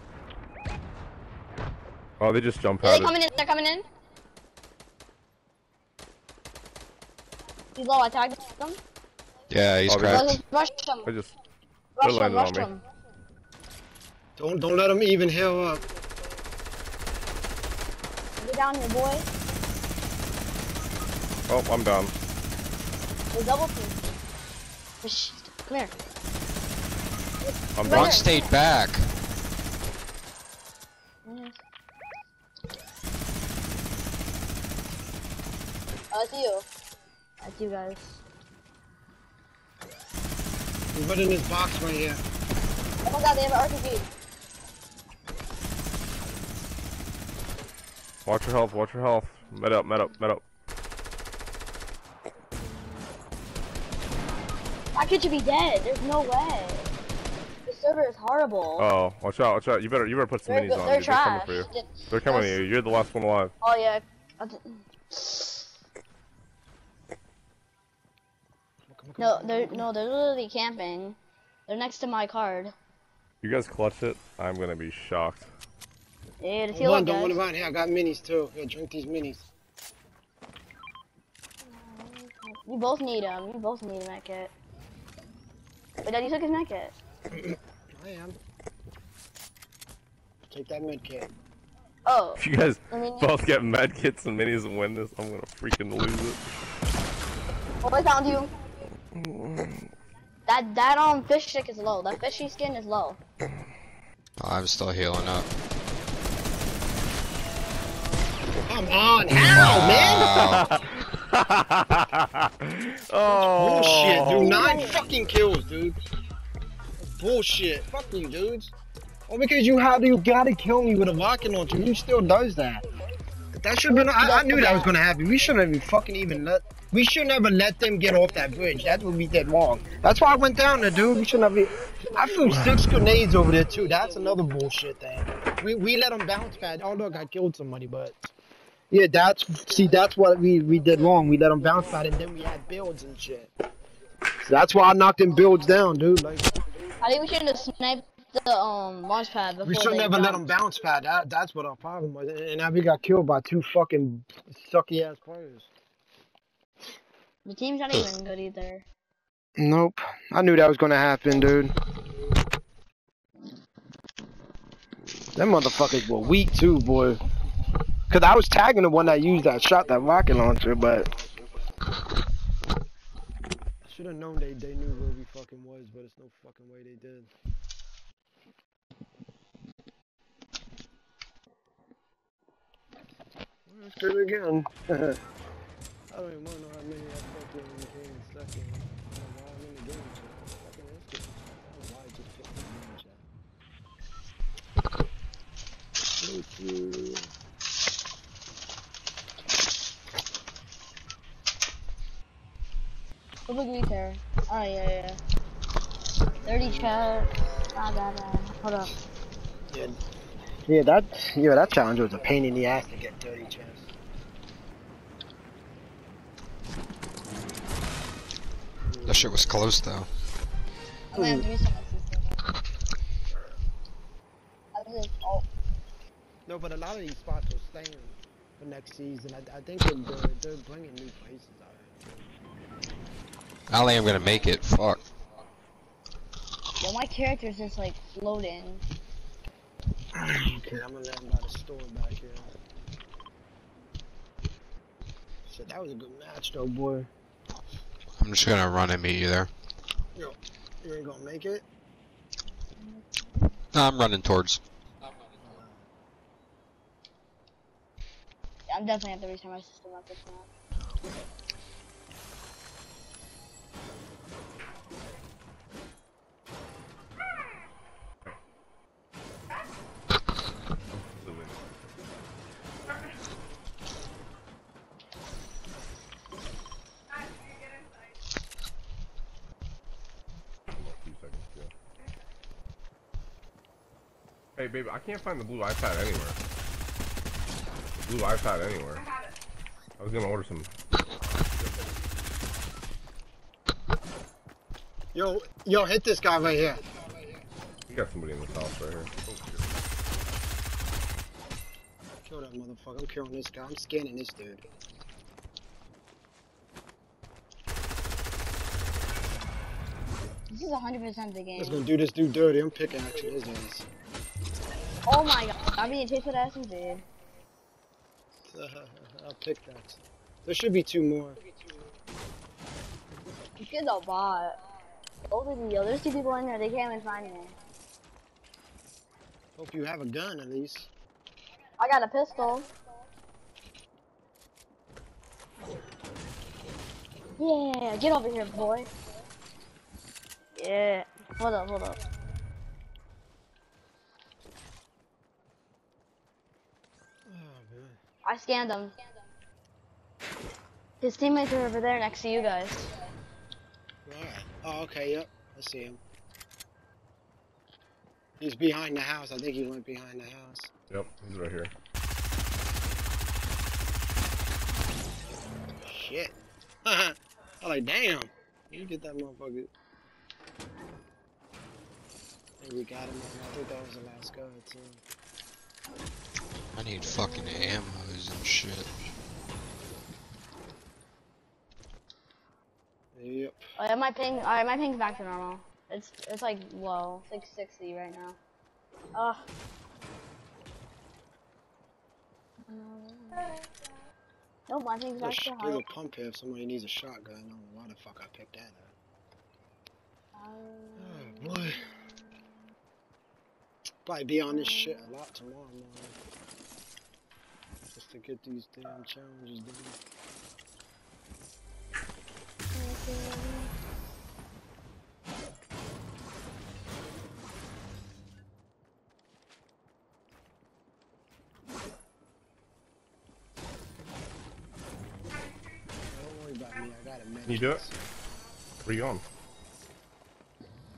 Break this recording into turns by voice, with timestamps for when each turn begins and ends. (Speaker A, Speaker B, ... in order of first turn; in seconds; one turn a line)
Speaker A: 2.2-3.2
Speaker B: 2.8-3.9
Speaker B: 7.8-8.8
Speaker C: 9.5-10.4
Speaker A: 9.9-10.4
Speaker B: 10.0-11.1
Speaker A: 11.1-11.3
Speaker B: 12.0-12.8
Speaker A: 12.0-12.7
Speaker D: 14.4-15.8
Speaker B: 18.4-19.3
Speaker A: 21.5-22.1
Speaker B: 23.3-24.0
Speaker B: 25.0-25.9
Speaker B: 27.4-28.5
Speaker A: 27.8-28.3
Speaker C: 27.8-29.1
Speaker B: 31.2-31.6
Speaker B: 36.1-36.7
Speaker B: 37.4-38.2
Speaker D: 40.9-42.2
Speaker B: 43.0-44.0
Speaker A: 48.2-50.4
Speaker B: 55.0-56.9
Speaker B: 57.7-58.9
Speaker A: 58.8-63.5
Speaker B: 60.5-62.6
Speaker B: 63.6-65.7
Speaker D: 68.9-69.9
Speaker B: 69.2-72.7
Speaker A: 73.4-75.5
Speaker B: 76.4-77.4
Speaker D: 76.7-79.4
Speaker B: 81.7-84.5
Speaker B: 86.0-86.9
Speaker D: 87.3-88.4
Speaker D: 90.5-91.3
Speaker B: 92.1-93.3
Speaker A: 92.4-96.4
Speaker B: 97.8-98.5
Speaker A: 99.1-99.9
Speaker B: 100.5-103.2
Speaker C: 104.4-105.5
Speaker D: 108.6-110.5
Speaker C: 109.3-110.7
Speaker A: 109.5-114.7
Speaker D: 113.3-116.0
Speaker B: 114.3-115.0
Speaker D: 117.0-118.7
Speaker D: 119.3-122.8
Speaker D: 123.5-138.3
Speaker B: 123.9-124.9
Speaker D: 138.9-143.5
Speaker D: 144.4-146.5
Speaker B: 147.0-150.5
Speaker D: 149.6-155.7
Speaker B: 157.5-158.8
Speaker D: 159.6-161.7
Speaker D: 165.3-167.2
Speaker D: 168.1-171.1
Speaker D: 173.8-177.3
Speaker D: 183.7-185.2
Speaker D: 186.1-193.3
Speaker D: 196.2-197.3
Speaker B: 203.5-205.2
Speaker D: 206.4-207.0
Speaker B: 206.4-208.9
Speaker D: 209.7-210.0
Speaker D: 210.7-213.9
Speaker D: 218.8-219.4
Speaker C: 219.1-220.1
Speaker B: 221.1-222.4
Speaker D: 221.2-221.5
Speaker B: 224.7-225.5
Speaker D: 226.5-231.9
Speaker C: 233.7-235.0
Speaker B: 236.8-238.8
Speaker D: 240.1-242.5
Speaker D: 245.5-247.1
Speaker C: 248.2-249.5
Speaker D: 250.2-251.7
Speaker C: 253.7-254.6
Speaker D: 255.4-255.8
Speaker B: 258.7-260.5
Speaker A: 270.9-271.6
Speaker A: 280.8-281.7
Speaker A: 284.6-286.4
Speaker A: 287.9-289.1
Speaker A: 290.0-290.7
Speaker A: 291.3-291.9
Speaker D: 295.1-296.9
Speaker A: 297.9-299.7
Speaker D: 302.2-304.6
Speaker B: 310.5-311.8
Speaker D: 311.6-313.9
Speaker B: 315.1-317.0
Speaker D: 318.5-321.4
Speaker B: 323.6-324.6
Speaker B: 325.3-327.5
Speaker D: 329.6-330.9
Speaker B: 331.8-332.7
Speaker B: 337.4-338.9
Speaker B: 340.6-342.0
Speaker D: 347.3-348.0
Speaker B: 348.2-348.9
Speaker B: 351.0-352.9
Speaker D: 354.1-356.0
Speaker D: 358.4-360.7
Speaker A: 360.9-361.7
Speaker D: 365.8-369.7
Speaker D: 372.6-375.0
Speaker C: 376.8-378.9
Speaker B: 377.2-377.8
Speaker D: 383.1-383.6
Speaker B: 383.8-388.4
Speaker B: 389.1-389.4
Speaker B: 392.7-393.6
Speaker B: 394.7-395.8
Speaker D: 395.2-398.9
Speaker B: 400.4-402.0
Speaker D: 401.0-401.8
Speaker D: 404.1-406.2
Speaker B: 404.5-405.1
Speaker D: 407.9-410.0
Speaker B: 412.8-413.7
Speaker D: 426.1-428.0
Speaker A: 427.5-427.8
Speaker A: 428.9-429.2